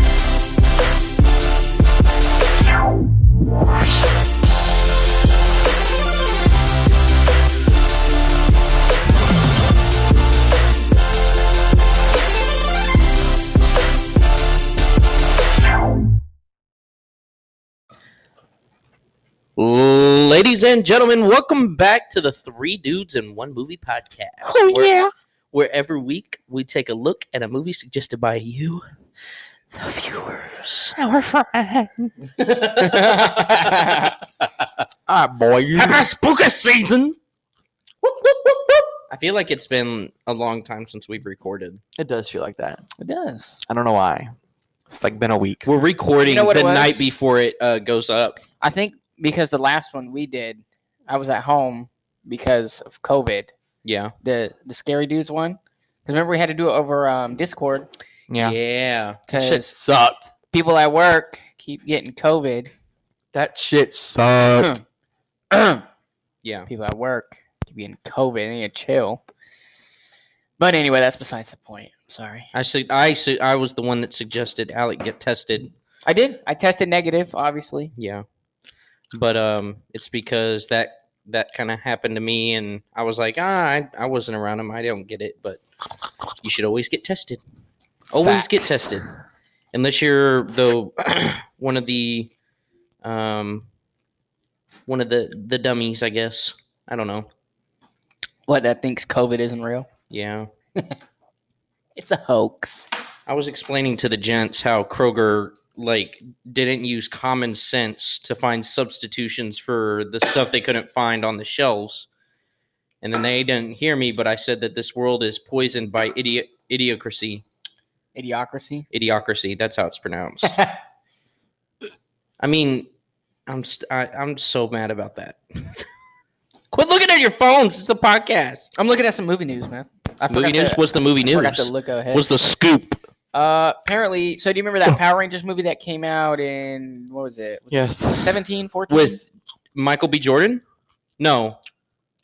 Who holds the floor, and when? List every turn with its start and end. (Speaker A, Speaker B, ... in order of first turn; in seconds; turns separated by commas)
Speaker A: 19.6-24.9, Speaker B: 24.4-25.1, Speaker A: 25.5-28.8, Speaker A: 29.8-30.9, Speaker B: 30.9-32.4, Speaker A: 32.4-33.9, Speaker B: 33.1-33.9, Speaker B: 35.1-36.1, Speaker A: 35.8-37.1, Speaker B: 38.0-38.9, Speaker A: 39.1-41.8, Speaker B: 42.0-42.9, Speaker C: 43.0-43.6, Speaker B: 43.6-44.3, Speaker B: 44.9-45.7, Speaker A: 45.6-48.4, Speaker C: 46.2-47.1, Speaker C: 48.6-53.5, Speaker A: 53.9-54.1, Speaker C: 54.2-57.9, Speaker B: 58.3-58.6, Speaker A: 58.4-59.4, Speaker C: 59.3-59.8, Speaker B: 59.4-60.3, Speaker C: 60.5-62.7, Speaker B: 63.3-64.7, Speaker C: 65.5-65.8, Speaker A: 66.4-66.7, Speaker C: 66.7-69.2, Speaker C: 70.6-72.5, Speaker A: 72.5-75.7, Speaker C: 76.1-77.9, Speaker A: 78.0-78.2, Speaker A: 79.1-85.6, Speaker A: 86.4-87.4, Speaker A: 88.1-89.1, Speaker B: 88.1-89.0, Speaker A: 89.7-92.3, Speaker A: 93.0-93.7, Speaker A: 94.9-97.3, Speaker C: 98.5-99.9, Speaker A: 100.1-100.5, Speaker C: 102.0-102.9, Speaker A: 103.3-112.1, Speaker A: 113.0-117.4, Speaker C: 118.2-118.9, Speaker A: 118.9-120.6, Speaker C: 120.5-120.7, Speaker A: 122.4-122.9, Speaker A: 123.5-125.9, Speaker A: 126.7-128.7, Speaker C: 128.8-132.3, Speaker A: 130.3-133.0, Speaker C: 133.3-139.2, Speaker B: 137.7-138.4, Speaker A: 138.9-139.2, Speaker A: 139.8-140.6, Speaker A: 141.2-141.6